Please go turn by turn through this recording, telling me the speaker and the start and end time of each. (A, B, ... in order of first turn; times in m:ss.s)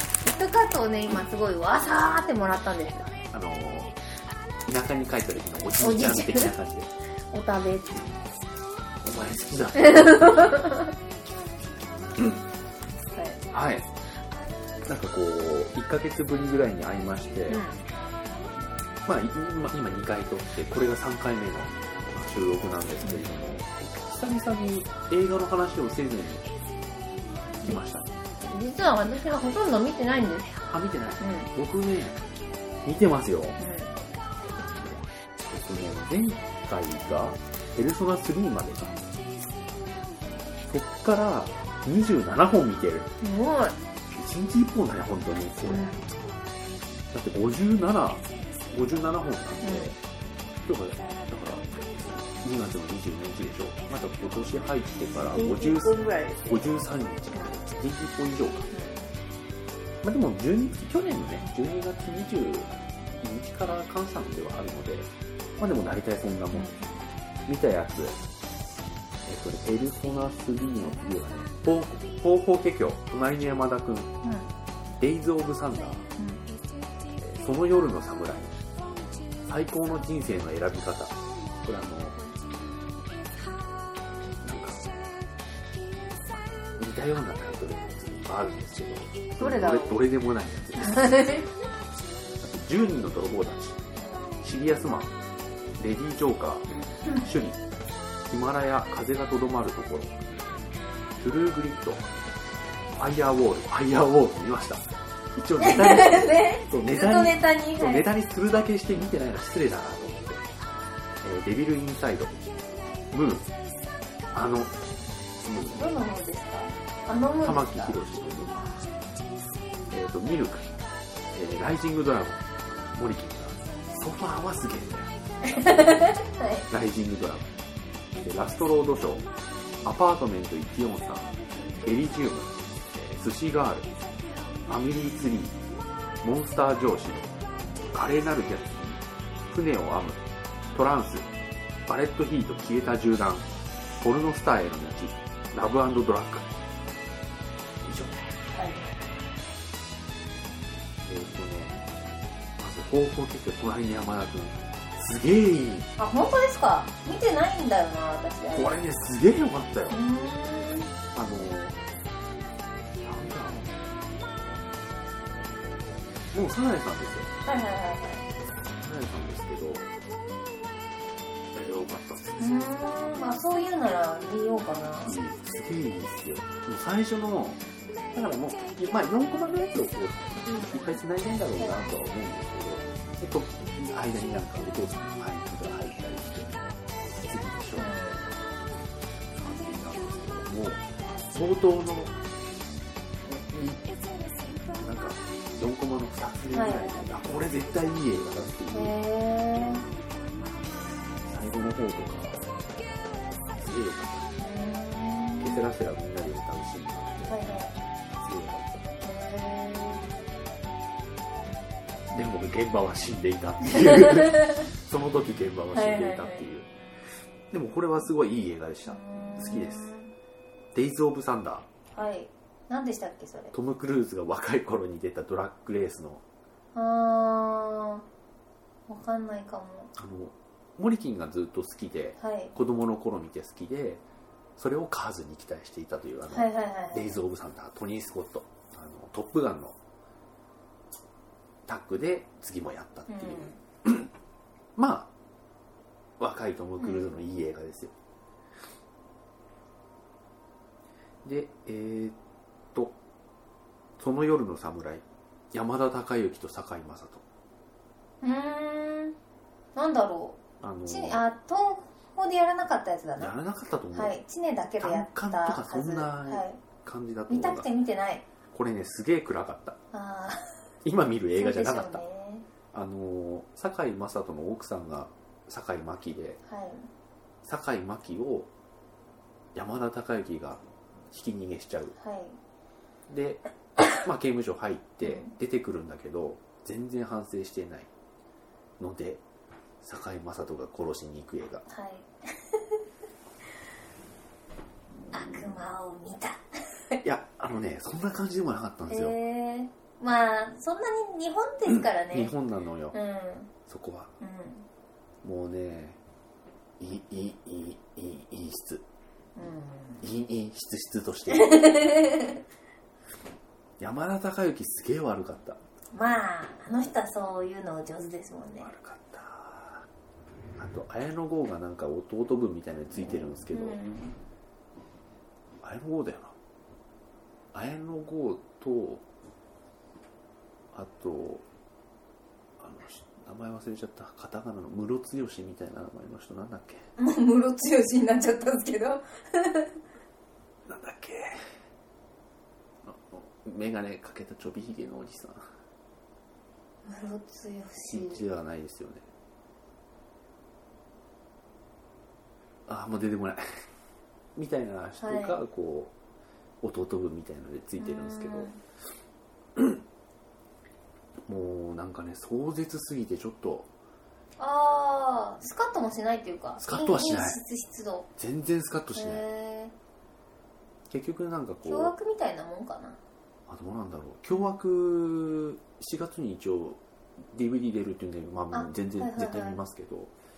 0:00.2-0:03.2 A
0:03.3-0:04.0 B
0:04.7-0:06.9 B
0:05.8-0:06.5 A
0:07.3-0:08.1 A
0:09.0-0:10.6 B
0:09.8-0:10.9 A
0:12.2-0:12.4 B
0:13.2-0:13.4 A
0:13.5-0:13.9 B
0:14.9-0:17.6 B
0:17.5-0:17.8 A
0:19.0-0:26.5 B
0:27.6-0:28.1 B
0:28.4-0:30.6 A
0:30.7-0:32.2 B
0:31.2-0:31.5 A
0:32.8-0:33.6 B
0:33.6-0:34.0 A
0:34.6-0:39.1 B
0:40.7-0:43.1 B
0:43.2-0:43.8 A
0:44.1-0:45.9 B
0:45.7-0:46.0 A
0:47.1-0:50.0 B
0:49.6-0:50.0 A
0:50.6-0:51.7 B
0:52.4-0:58.7 B
0:55.3-0:56.7 A
0:58.7-0:59.1 A
1:00.0-1:06.7 B
1:06.5-1:07.0 A
1:07.5-1:08.2 B
1:09.3-1:14.1 B
1:14.2-1:14.5 A
1:15.0-1:16.1 B
1:16.2-1:16.4 A
1:17.2-1:18.6 B
1:19.5-1:22.2 B
1:24.4-1:24.9 B
1:26.8-1:31.5 B
1:29.4-1:30.0 A
1:30.8-1:31.5 A
1:32.4-1:33.8 B
1:34.0-1:34.2 A
1:34.4-1:35.1 B
1:35.8-1:37.6 B
1:36.7-1:37.3 A
1:38.3-1:40.2 B
1:41.2-1:42.1 B
1:43.0-1:50.4 B
1:45.6-1:48.1 A
1:51.2-1:52.4 B
1:53.1-1:53.5 B
1:54.3-1:54.8 B
1:55.4-1:55.9 B
1:55.7-1:58.0 A
1:57.4-1:58.6 B
1:59.9-2:00.7 B
2:01.3-2:06.1 B
2:05.5-2:06.7 A
2:06.7-2:07.5 B
2:08.2-2:09.3 B
2:09.8-2:13.9 B
2:14.7-2:15.6 B
2:16.2-2:17.3 B
2:17.9-2:21.3 B
2:21.9-2:23.5 B
2:24.0-2:26.5 B
2:27.8-2:28.2 B
2:28.5-2:28.9 A
2:31.0-2:31.8 B
2:32.6-2:35.9 B
2:36.0-2:38.7 A
2:38.5-2:40.0 B
2:39.9-2:40.9 A
2:41.0-2:41.8 B
2:43.0-2:43.8 B
2:46.3-2:47.3 B
2:47.4-2:48.3 A
2:48.8-2:49.9 B
2:51.5-2:52.7 B
2:52.4-2:55.2 A
2:55.1-2:57.6 B
2:58.1-3:08.0 B
3:00.5-3:01.0 A
3:01.6-3:01.9 A
3:07.8-3:08.4 A
3:09.4-3:12.2 B
3:13.2-3:13.9 B
3:14.7-3:19.0 B
3:16.5-3:17.0 A
3:18.7-3:19.9 A
3:21.2-3:22.4 B
3:23.5-3:24.3 B
3:24.4-3:25.6 A
3:25.4-3:27.5 B
3:27.3-3:27.8 A
3:28.2-3:28.7 B
3:29.0-3:30.0 A
3:32.1-3:36.7 B
3:33.7-3:34.7 A
3:35.7-3:36.4 A
3:37.5-3:39.9 B
3:38.9-3:40.1 A
3:40.7-3:41.7 B
3:41.9-3:43.5 A
3:43.5-3:46.2 B
3:46.7-3:48.0 A
3:48.9-3:49.9 A
3:50.0-3:54.0 B
3:52.2-3:52.5 A
3:54.6-3:59.8 B
3:56.3-3:57.2 A
4:01.7-4:04.1 B
4:03.1-4:03.6 A
4:04.8-4:05.1 B
4:06.2-4:07.9 B
4:06.8-4:07.1 A
4:11.2-4:12.2 B
4:14.0-4:17.2 B
4:18.2-4:19.2 A
4:19.8-4:23.3 A
4:20.6-4:21.2 B
4:23.2-4:24.2 B
4:23.9-4:26.6 A
4:24.8-4:27.7 B
4:27.3-4:28.2 A
4:28.5-4:29.8 B
4:29.9-4:30.6 A
4:30.8-4:32.0 B
4:31.4-4:32.5 A
4:32.7-4:36.4 B
4:36.5-4:36.9 A
4:37.4-4:38.5 B
4:39.6-4:41.9 B
4:42.0-4:42.4 A
4:43.1-4:43.4 B
4:44.0-4:47.9 B
4:45.0-4:45.3 A
4:48.8-4:49.2 B
4:49.8-4:51.6 B
4:51.7-4:52.8 A
4:55.1-4:57.0 A
4:57.0-4:59.2 B
4:58.9-5:02.3 A
5:01.7-5:03.0 B
5:02.9-5:03.5 A
5:03.7-5:04.1 B
5:04.2-5:04.7 A
5:05.2-5:06.0 B
5:06.8-5:08.8 B
5:09.4-5:10.0 A
5:10.0-5:11.6 B
5:11.3-5:12.4 A
5:13.8-5:15.6 B
5:15.9-5:18.7 A
5:18.6-5:19.9 B
5:20.6-5:23.8 B
5:23.5-5:24.2 A
5:25.6-5:26.4 B
5:27.5-5:29.0 B
5:30.7-5:31.4 B
5:32.6-5:36.8 B
5:37.0-5:39.7 A
5:40.7-5:41.4 B
5:42.8-5:45.4 B
5:46.8-5:48.2 A
5:47.9-5:49.0 B
5:52.7-5:53.4 B
5:54.4-5:55.9 B
5:55.0-5:55.4 A
5:56.6-5:58.5 B
5:57.8-5:58.6 A
5:59.6-5:59.8 B
6:01.3-6:03.7 B
6:04.4-6:08.1 A
6:06.6-6:07.4 B
6:08.2-6:09.2 B
6:09.0-6:09.7 A
6:10.9-6:11.9 B
6:11.7-6:13.0 A
6:13.5-6:20.1 B
6:14.3-6:14.6 A
6:18.5-6:19.6 A